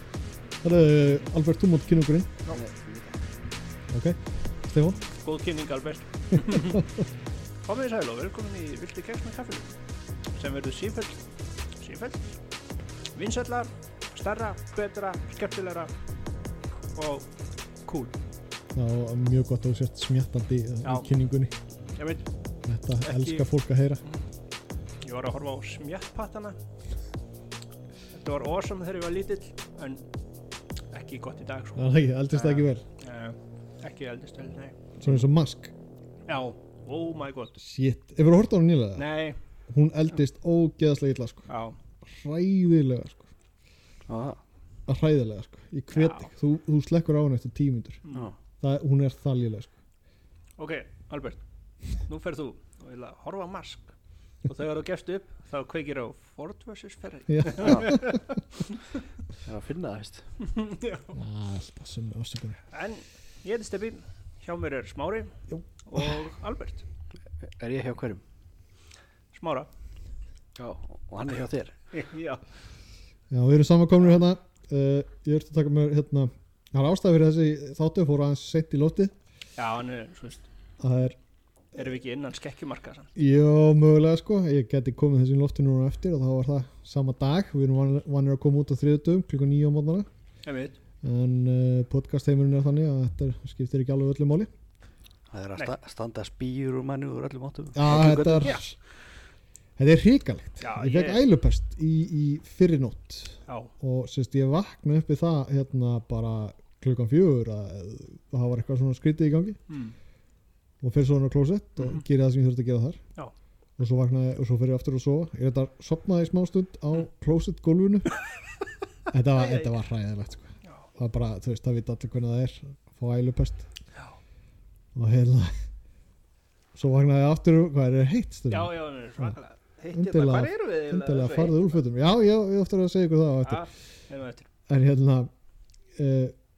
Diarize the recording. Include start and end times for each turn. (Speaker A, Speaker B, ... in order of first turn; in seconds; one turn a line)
Speaker A: 0.6-2.4
Speaker B: 2.5-3.2
Speaker A: 3.9-5.0
Speaker C: 5.2-6.9
Speaker A: 6.5-7.0
Speaker C: 7.6-9.7
Speaker C: 10.3-11.3
Speaker C: 11.8-12.4
Speaker C: 13.1-15.9
Speaker C: 16.9-17.3
Speaker C: 17.9-18.1
Speaker A: 18.7-21.5
Speaker C: 20.8-21.1
Speaker C: 22.0-22.2
Speaker A: 22.6-24.0
Speaker C: 23.0-23.5
Speaker C: 25.0-26.6
Speaker C: 28.1-30.1
Speaker C: 30.9-35.2
Speaker A: 31.8-32.8
Speaker A: 35.0-35.7
Speaker C: 36.3-37.5
Speaker A: 37.6-39.0
Speaker C: 39.0-39.4
Speaker A: 39.7-41.5
Speaker C: 41.5-41.8
Speaker A: 42.0-43.3
Speaker B: 44.1-44.4
Speaker A: 44.9-48.0
Speaker C: 45.9-46.3
Speaker C: 48.0-48.3
Speaker A: 48.6-49.7
Speaker C: 50.6-51.4
Speaker C: 51.9-53.9
Speaker C: 54.4-58.4
Speaker A: 57.3-58.2
Speaker B: 57.6-58.0
Speaker B: 59.4-60.3
Speaker C: 60.4-61.1
Speaker A: 61.1-62.6
Speaker C: 62.7-65.3
Speaker A: 65.5-66.2
Speaker C: 65.8-66.8
Speaker B: 67.4-68.2
Speaker C: 69.3-69.7
Speaker B: 70.6-71.7
Speaker C: 71.9-72.4
Speaker A: 73.3-79.1
Speaker C: 79.6-80.5
Speaker A: 80.8-81.2
Speaker C: 81.7-83.1
Speaker A: 83.2-90.1
Speaker C: 90.4-90.8
Speaker A: 91.0-94.5
Speaker B: 95.3-98.6
Speaker A: 97.7-98.8
Speaker C: 97.9-98.6
Speaker A: 99.8-109.6
Speaker C: 100.6-101.2
Speaker C: 103.5-103.7
Speaker C: 109.7-109.9
Speaker A: 110.8-113.0
Speaker C: 111.8-112.0
Speaker A: 113.8-118.1
Speaker A: 119.1-123.7
Speaker C: 119.4-119.7
Speaker A: 124.9-125.5
Speaker A: 126.7-129.3
Speaker C: 128.5-131.8
Speaker A: 129.9-133.7
Speaker C: 133.4-134.5
Speaker A: 134.7-135.3
Speaker A: 135.9-136.3